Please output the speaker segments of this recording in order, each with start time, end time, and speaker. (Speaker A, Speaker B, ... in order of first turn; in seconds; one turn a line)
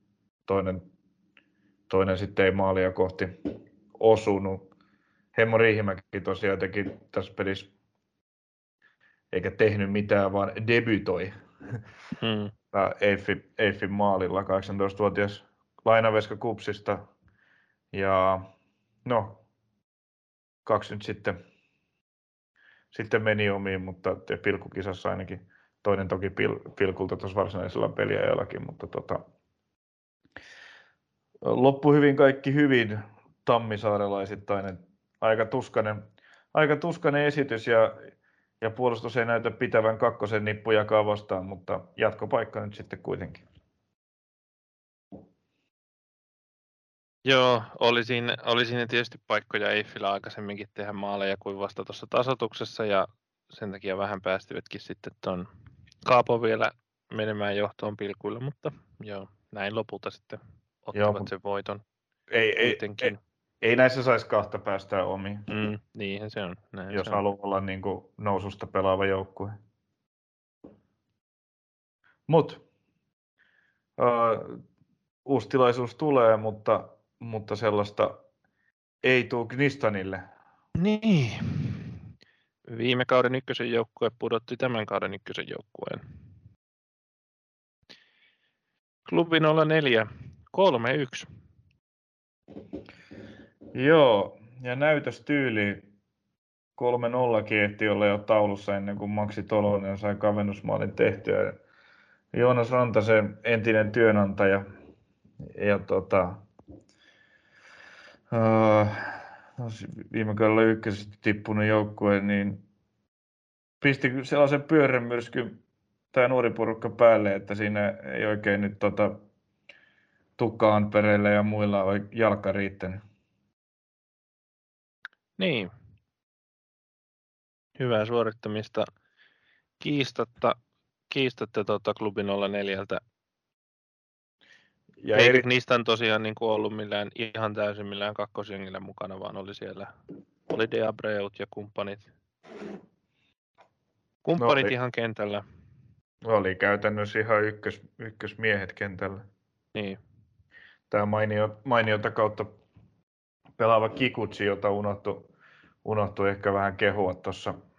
Speaker A: 0.5-0.9
Speaker A: 1.9-3.3
Speaker A: 4.0-4.7
Speaker A: 5.3-7.7
Speaker A: 9.3-11.8
Speaker B: 12.2-12.5
Speaker A: 12.7-17.0
Speaker A: 17.9-18.4
Speaker A: 19.0-19.4
Speaker A: 20.6-21.4
Speaker A: 22.9-29.2
Speaker A: 31.4-38.0
Speaker A: 38.6-43.4
Speaker B: 47.2-55.5
Speaker B: 56.0-61.8
Speaker A: 60.9-61.3
Speaker A: 62.3-65.5
Speaker B: 62.6-63.2
Speaker B: 65.5-67.2
Speaker A: 66.9-69.6
Speaker A: 72.3-72.6
Speaker A: 74.0-74.6
Speaker A: 75.2-78.2
Speaker A: 79.0-80.2
Speaker B: 80.8-81.8
Speaker B: 82.7-86.0
Speaker B: 89.1-91.3
Speaker A: 93.7-95.9
Speaker A: 96.8-101.6
Speaker A: 102.3-104.6
Speaker A: 105.5-106.4
Speaker A: 108.3-112.6
Speaker A: 113.8-115.6
Speaker A: 116.1-119.2
Speaker A: 120.4-123.0
Speaker B: 125.4-125.7
Speaker B: 127.8-128.8
Speaker B: 129.8-130.6
Speaker B: 131.1-133.0
Speaker A: 135.0-135.4
Speaker B: 135.1-139.9
Speaker B: 140.5-142.1
Speaker B: 144.2-145.4
Speaker A: 144.4-144.7
Speaker A: 146.2-149.2
Speaker A: 150.9-152.5
Speaker A: 153.6-155.3
Speaker A: 155.8-157.6